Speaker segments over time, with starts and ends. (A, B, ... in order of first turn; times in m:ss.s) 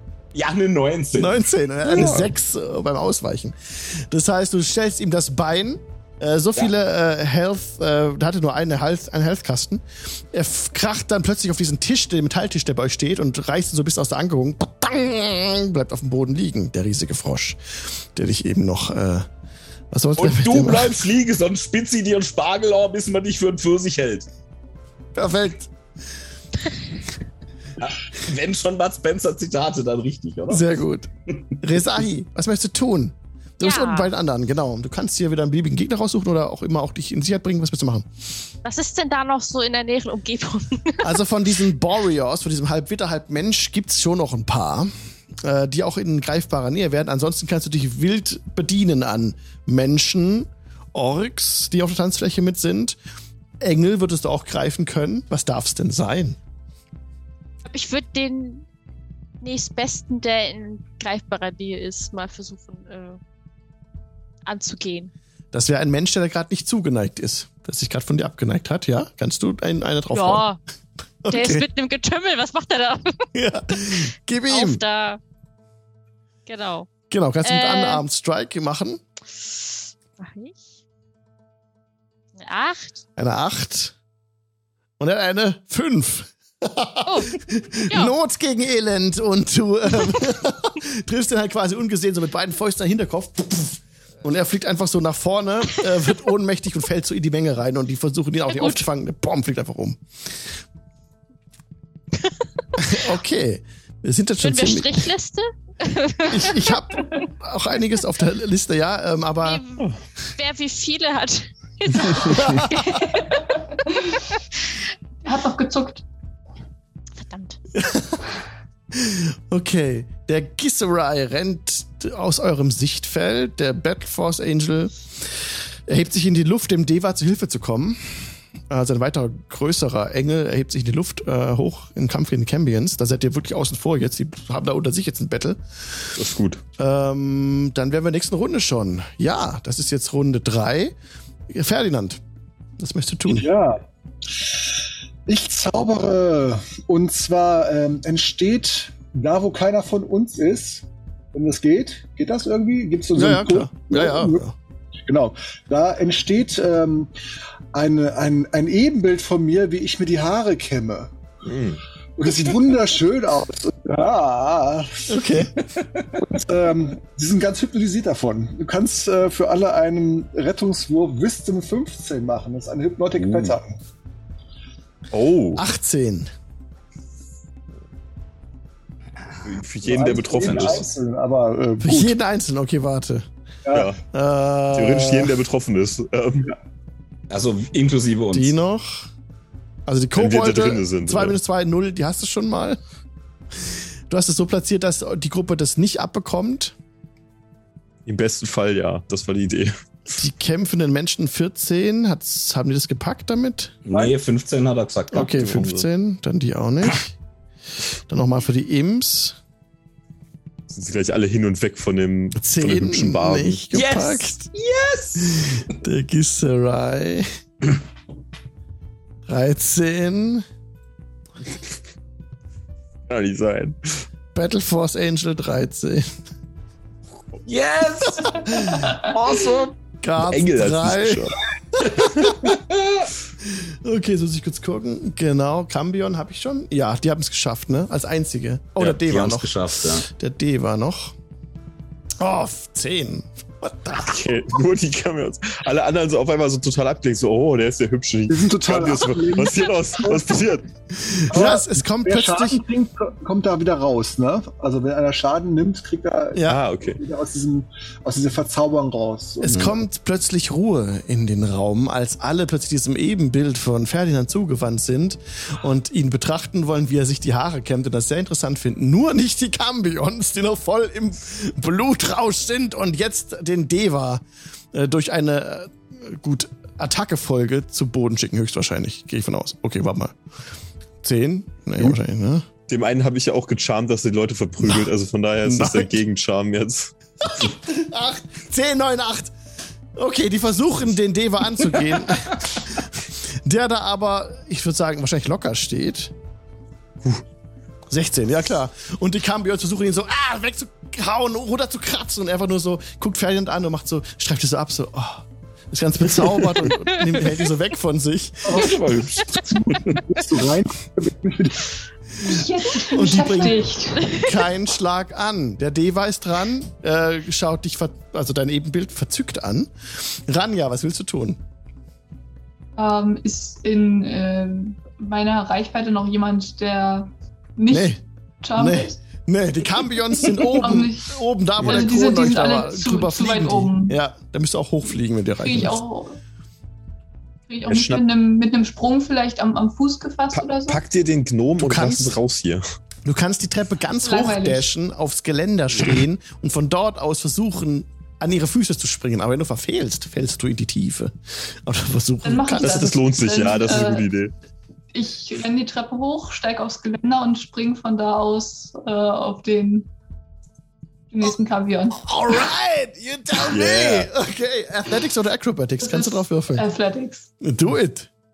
0:00.3-0:01.4 A
0:01.2-0:19.2 B
0:02.0-0:02.2 A
0:02.0-0:02.3 C
0:19.9-0:21.0 B
0:20.2-0:24.3 A
0:25.1-0:25.7 B
0:27.8-0:30.6 A
0:30.5-0:31.1 B
0:31.6-0:38.1 B
0:33.6-0:34.1 D
0:38.6-0:41.2 D
0:41.0-0:44.9 B
0:45.4-0:53.0 B
0:53.6-0:56.4 B
0:57.6-0:58.6 D
0:59.4-1:03.2 D
1:04.4-1:05.1 D
1:05.5-1:10.5 B
1:10.1-1:10.6 D
1:11.2-1:11.6 B
1:11.3-1:15.2 D
1:13.3-1:14.8 B
1:16.4-1:16.9 D
1:17.1-1:19.0 B
1:17.4-1:18.0 D
1:19.3-1:20.6 D
1:22.4-1:23.0 D
1:23.2-1:23.9 B
1:25.0-1:40.5 B
1:27.0-1:27.4 D
1:38.5-1:38.8 D
1:42.8-1:45.1 B
1:44.4-1:47.2 D
1:46.3-1:49.6 B
1:49.4-1:54.8 D
1:52.2-1:53.2 B
1:55.2-1:56.0 E
1:57.2-1:57.6 D
1:57.8-1:58.2 B
1:58.9-2:16.2 B
2:16.2-2:16.6 C
2:16.8-2:20.9 B
2:21.5-2:22.2 B
2:22.8-2:23.5 B
2:23.3-2:23.8 F
2:25.2-2:34.4 F
2:33.1-2:34.5 B
2:35.1-2:37.1 F
2:37.7-2:41.1 F
2:41.4-2:41.8 C
2:42.2-2:45.2 F
2:45.1-2:45.5 B
2:46.2-2:53.7 F
2:53.2-2:53.5 C
2:55.1-2:55.6 C
2:55.6-2:56.3 B
2:59.4-3:00.8 C
2:59.8-3:02.2 F
3:00.1-3:00.9 A
3:01.8-3:03.3 B
3:03.6-3:03.9 F
3:03.7-3:04.0 C
3:04.1-3:05.4 B
3:04.7-3:06.5 C
3:07.3-3:08.5 A
3:08.3-3:09.1 B
3:09.9-3:12.8 B
3:10.2-3:11.4 C
3:14.1-3:16.7 B
3:18.0-3:19.8 C
3:20.1-3:23.7 B
3:23.8-3:25.3 A
3:25.1-3:27.1 B
3:25.2-3:25.9 C
3:28.1-3:29.4 B
3:30.7-3:33.6 C
3:32.3-3:34.5 B
3:33.7-3:35.2 A
3:35.2-3:37.3 B
3:39.3-3:40.4 B
3:43.1-3:44.0 C
3:44.3-3:46.1 B
3:47.4-3:51.3 A
3:48.3-3:48.9 B
3:50.0-3:52.4 B
3:51.8-3:53.1 A
3:53.4-4:01.1 B
3:58.8-4:00.0 A
4:02.2-4:04.2 B
4:04.0-4:10.7 C
4:08.3-4:10.3 F
4:10.9-4:12.6 B
4:11.3-4:19.8 F
4:16.3-4:16.6 B
4:16.5-4:17.0 C
4:19.4-4:40.1 B
4:41.0-4:42.4 B
4:42.7-4:46.9 C
4:45.4-4:46.0 B
4:47.2-4:49.3 B
4:50.0-4:56.1 B
4:57.9-5:08.7 B
5:06.7-5:07.4 D
5:08.4-5:08.8 F
5:08.5-5:10.0 A
5:09.4-5:11.7 F
5:12.2-5:14.1 E
5:12.9-5:21.4 B
5:14.0-5:14.3 D
5:22.8-5:29.0 E
5:27.7-5:28.0 B
5:28.5-5:35.8 B
5:30.5-5:34.0 E
5:35.4-5:36.2 E
5:37.5-5:40.8 E
5:37.6-5:38.0 C
5:40.3-5:42.6 C
5:41.6-5:42.2 B
5:43.0-5:53.0 B
5:44.0-5:44.7 E
5:52.2-5:54.1 E
5:52.6-5:54.3 C
5:54.9-5:59.9 E
6:01.1-6:02.0 E
6:02.0-6:06.6 B
6:03.5-6:04.1 C
6:05.8-6:07.3 E
6:07.4-6:08.1 B